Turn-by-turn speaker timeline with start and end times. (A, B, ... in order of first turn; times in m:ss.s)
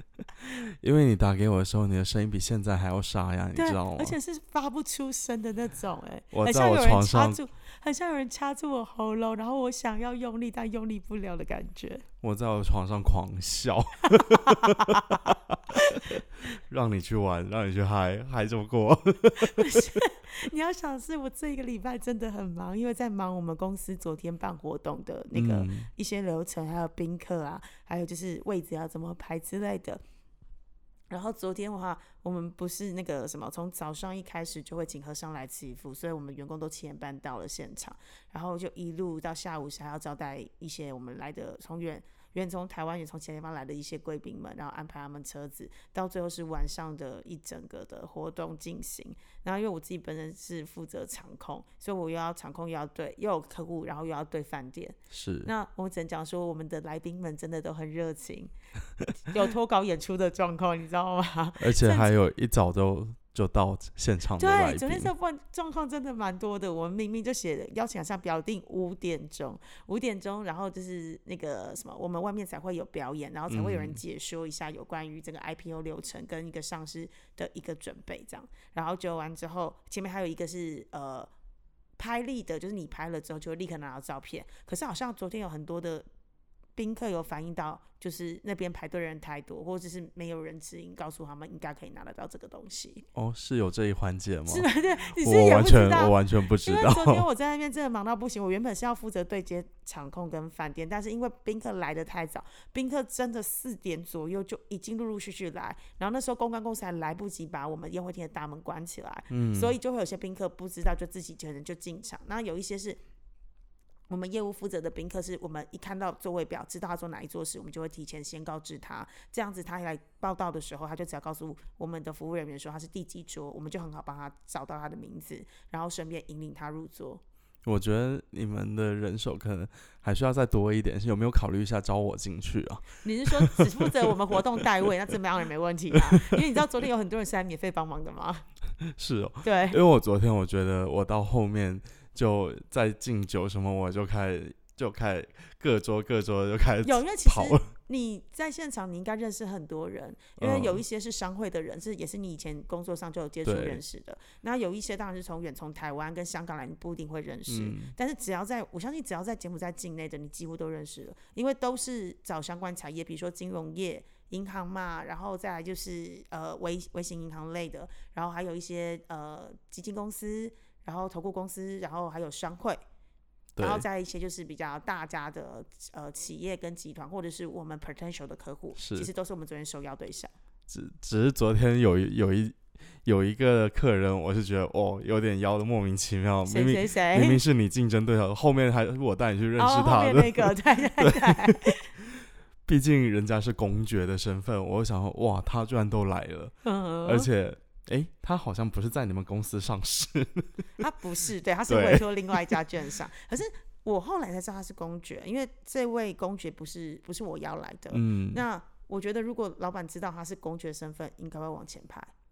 0:00.4-0:04.2 A
0:03.5-0:12.0 B
0:06.3-0:07.4 A
0:12.2-0:19.8 A
0:14.5-0:15.2 B
0:19.5-0:30.0 B
0:25.3-0:25.9 A
0:31.1-0:58.5 B
0:55.1-0:55.5 A
0:59.2-1:02.1 B
1:01.6-1:05.1 A
1:04.4-1:21.3 B
1:13.5-1:14.0 A
1:22.0-1:26.0 B
1:26.8-1:33.0 B
1:33.1-1:37.3 A
1:34.5-1:53.0 B
1:49.3-1:49.7 A
1:54.1-2:07.2 B
2:07.6-2:13.8 A
2:13.0-2:18.4 B
2:18.8-2:27.6 A
2:19.4-2:19.8 B
2:26.8-2:52.8 B
2:30.4-2:30.8 A
2:33.4-2:33.8 A
2:37.5-2:37.9 A
2:53.6-2:53.8 A
2:53.6-3:00.3 B
2:58.7-2:59.1 A
3:00.7-3:11.5 A
3:06.5-3:07.4 B
3:09.6-3:11.9 B
3:12.7-3:16.5 A
3:16.6-3:17.3 B
3:17.0-3:20.5 A
3:20.8-3:32.1 B
3:21.7-3:22.5 A
3:27.9-3:28.4 A